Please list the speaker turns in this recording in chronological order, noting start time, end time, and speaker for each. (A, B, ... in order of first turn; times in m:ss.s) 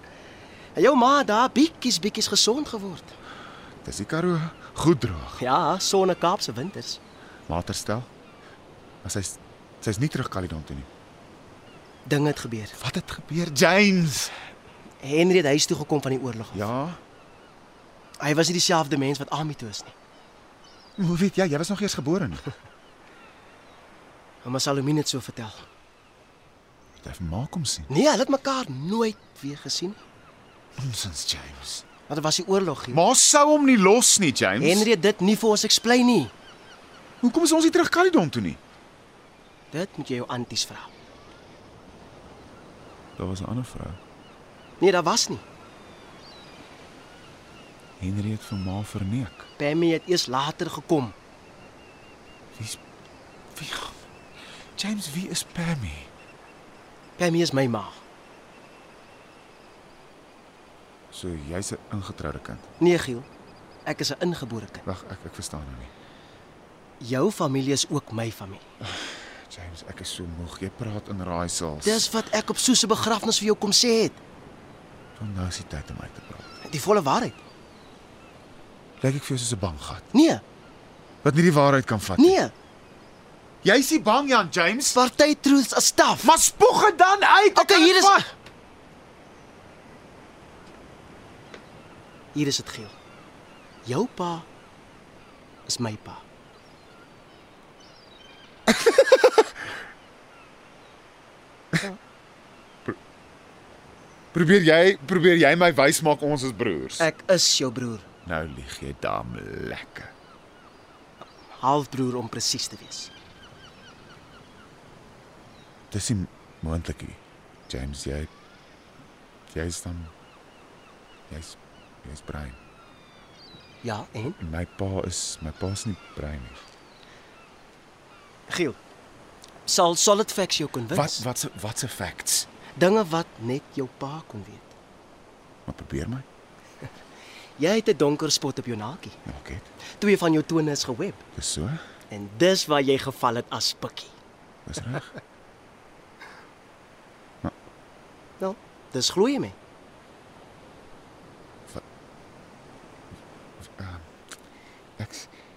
0:00.8-0:03.2 A
0:03.8-0:05.4 B
0:05.4-0:07.0 A
0:07.5-0:08.1 B
0:09.0-0:10.9 B
0:12.1-0:12.8 A
0:12.8-0:14.4 B
0:15.0-0:16.6 A
0:16.5-0:17.0 B
0:18.2-0:20.0 A
0:21.0-0:22.5 B
0:24.4-0:25.7 A
0:27.0-0:27.9 B
0:27.9-0:30.0 A
0:30.8-0:31.9 B
0:32.1-0:33.0 A
0:32.9-0:34.9 B
0:34.6-0:36.3 A
0:37.2-0:38.6 B
0:39.7-0:40.9 A
0:43.2-0:44.0 B
0:44.8-0:45.4 A
0:48.0-0:49.5 B
0:49.6-0:51.2 A
0:52.5-0:52.8 B
0:53.5-0:54.1 B
0:54.8-0:56.1 B
0:57.2-0:58.0 A
1:01.1-1:02.7 B
1:02.8-1:03.3 A
1:03.9-1:04.8 A
1:04.9-1:05.9 B
1:07.0-1:08.7 A
1:08.8-1:12.1 B
1:11.8-1:14.2 A
1:15.2-1:16.5 B
1:16.6-1:17.4 A
1:19.0-1:20.1 B
1:20.1-1:20.4 A
1:21.2-1:22.4 B
1:22.2-1:22.5 A
1:23.6-1:25.0 B
1:24.9-1:26.3 A
1:26.2-1:28.2 B
1:27.6-1:28.3 A
1:32.3-1:33.0 A
1:33.8-1:34.5 A
1:35.7-1:36.2 A
1:38.7-1:39.5 B
1:44.3-1:47.1 B
1:47.0-1:48.1 A
1:48.2-1:50.1 B
1:51.6-1:53.1 A
1:55.9-1:58.3 B
1:59.5-2:00.1 B
2:01.3-2:02.6 B
2:03.8-2:04.4 A
2:04.4-2:06.7 B
2:08.5-2:08.8 A
2:09.7-2:11.2 A
2:10.9-2:12.5 B
2:12.8-2:14.8 A
2:15.7-2:16.3 B
2:17.6-2:19.2 A
2:19.3-2:19.7 B
2:20.0-2:21.2 A
2:21.4-2:21.8 B
2:22.1-2:24.2 A
2:24.7-2:25.1 B
2:28.4-2:29.6 A
2:33.6-2:34.1 B
2:35.0-2:35.3 B